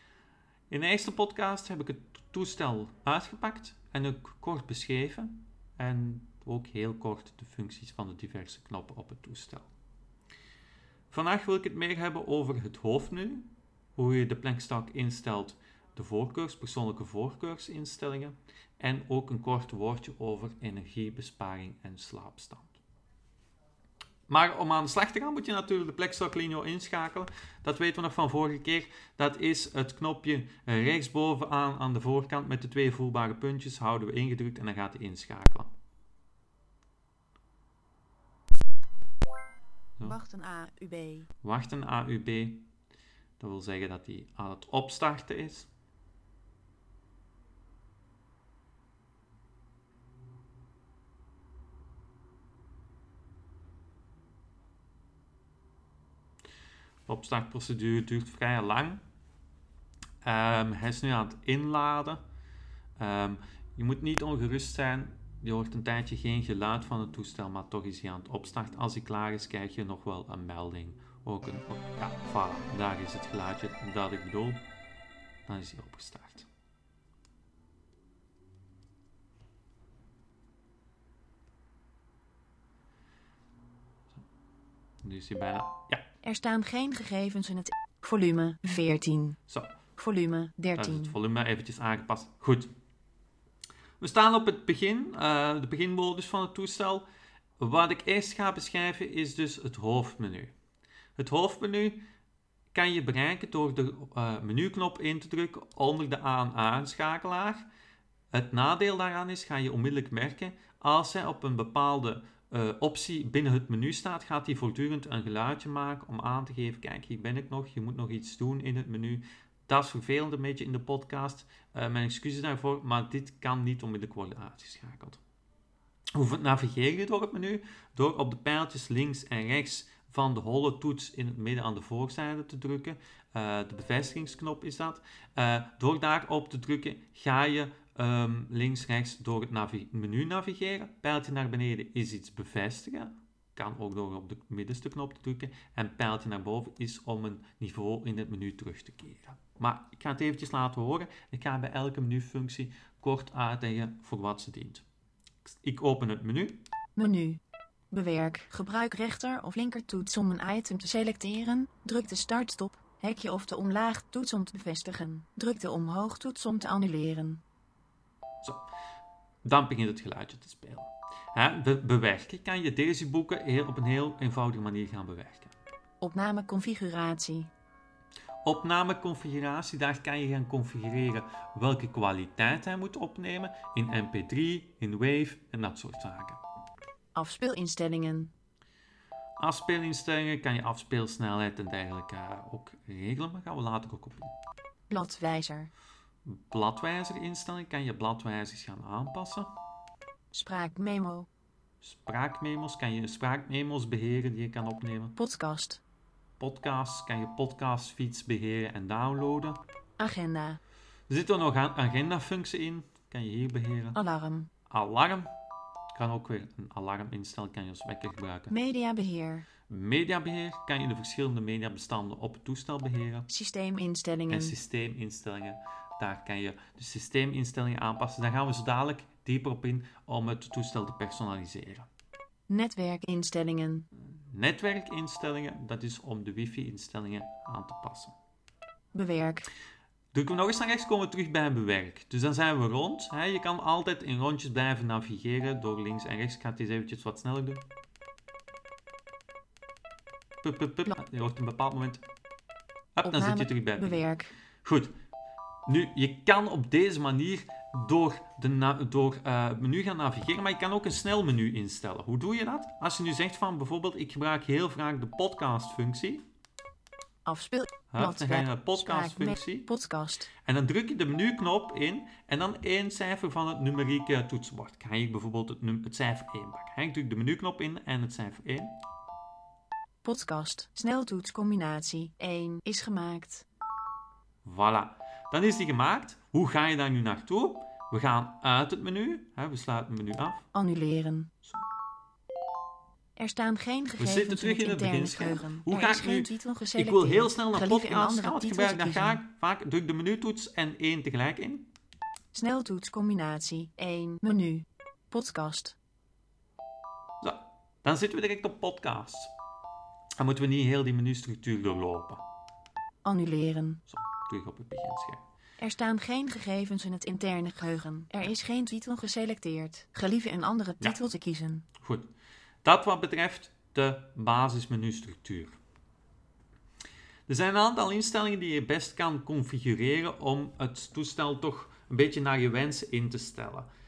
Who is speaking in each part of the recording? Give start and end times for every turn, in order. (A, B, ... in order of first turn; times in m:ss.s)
0:00.7-0:09.7 A
0:11.1-0:22.8 A
0:24.3-0:35.7 A
0:40.0-0:41.3 B
0:41.4-0:42.7 A
0:43.4-0:45.7 A
0:57.1-0:59.0 A
1:00.2-1:02.2 A
1:03.0-1:14.6 A
1:15.5-1:16.5 A
1:25.0-1:26.0 A
1:26.2-1:29.4 B
1:29.5-1:29.7 A
1:30.0-1:31.2 B
1:30.7-1:32.7 A
1:34.0-1:37.0 A
1:37.6-1:40.5 A
1:41.2-1:42.0 A
1:42.7-1:47.7 A
1:48.3-2:05.2 A
2:06.1-2:34.8 A
2:35.4-2:36.6 A
2:37.0-2:37.4 B
2:37.9-2:47.4 B
2:49.4-2:55.5 A
2:56.0-2:57.5 B
2:58.4-3:06.4 A
3:07.2-3:08.3 B
3:09.4-3:14.3 A
3:14.9-3:15.7 B
3:16.2-3:19.5 A
3:20.3-3:21.3 B
3:21.8-3:25.2 A
3:25.2-3:25.8 B
3:26.4-3:29.6 A
3:30.0-3:30.6 B
3:31.1-3:34.0 A
3:33.9-3:34.5 B
3:34.7-3:35.3 A
3:35.9-3:38.5 A
3:38.5-3:39.5 B
3:39.7-3:43.3 A
3:43.3-3:44.5 B
3:44.3-3:51.9 A
3:52.5-3:53.9 B
3:54.0-3:58.2 A
3:58.9-3:59.5 B
4:00.1-4:07.6 A
4:10.4-4:12.0 A
4:13.0-4:14.0 A
4:13.0-4:14.3 B
4:14.6-4:14.9 A
4:15.6-4:26.2 A
4:27.2-4:30.3 B
4:27.9-4:29.7 A
4:30.4-4:38.7 A
4:40.0-4:43.4 B
4:44.4-4:50.5 A
4:50.5-4:51.3 B
4:53.2-4:59.2 B
4:54.0-5:01.7 A
5:02.3-5:05.8 B
5:07.2-5:09.3 A
5:10.2-5:12.2 A
5:13.0-5:13.8 B
5:13.9-5:15.2 A
5:15.6-5:21.7 B
5:21.8-5:22.1 A
5:22.6-5:25.5 A
5:27.3-5:33.7 A